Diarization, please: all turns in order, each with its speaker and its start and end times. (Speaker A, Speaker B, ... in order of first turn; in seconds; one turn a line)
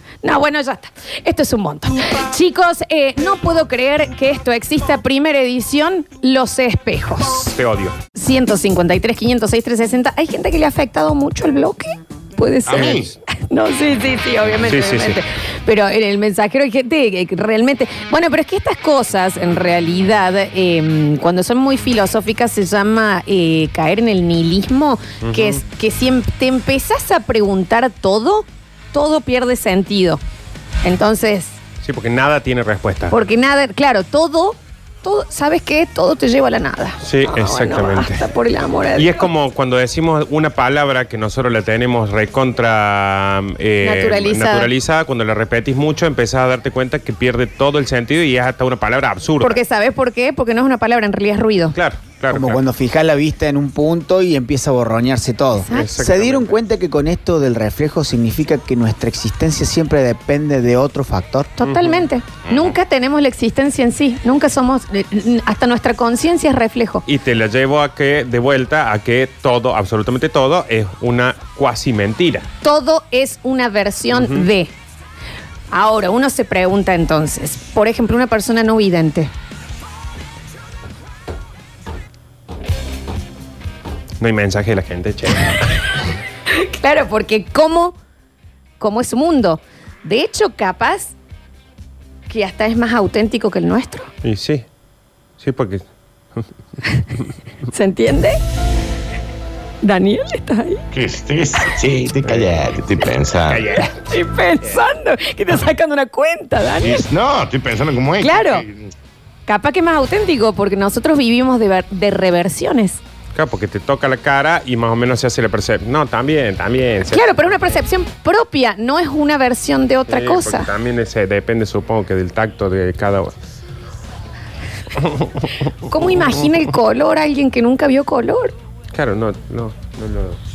Speaker A: 0.2-7.5
Speaker B: 7.5-8.0
Speaker A: 8.1-30.2
Speaker C: 12.7-13.1
Speaker B: 14.7-15.2
Speaker B: 25.2-25.6
Speaker A: 30.8-31.6
Speaker B: 31.8-33.1
Speaker A: 33.1-39.3
Speaker B: 37.0-38.2
Speaker B: 39.0-49.6
Speaker A: 43.8-44.7
Speaker A: 49.4-51.7
Speaker B: 51.7-52.6
Speaker D: 52.3-61.5
Speaker B: 55.7-56.5
Speaker A: 61.6-67.0
Speaker B: 61.6-62.1
Speaker C: 62.5-62.8
Speaker B: 67.0-72.5
Speaker A: 72.6-74.7
Speaker B: 74.1-74.5
Speaker A: 75.7-79.3
Speaker B: 84.2-85.7
Speaker A: 86.5-88.0
Speaker A: 88.8-91.1
Speaker A: 92.3-94.1
Speaker B: 94.2-94.6
Speaker B: 95.4-95.8
Speaker A: 97.7-98.4
Speaker A: 99.8-100.8
Speaker C: 100.9-103.7
Speaker B: 102.2-102.5
Speaker B: 103.5-104.0
Speaker A: 103.9-107.0
Speaker C: 106.8-108.9
Speaker A: 108.2-108.7
Speaker A: 109.5-113.0
Speaker B: 113.3-117.4
Speaker A: 117.1-120.7
Speaker B: 120.1-123.3
Speaker B: 125.0-125.5
Speaker A: 125.8-128.5
Speaker B: 128.9-130.4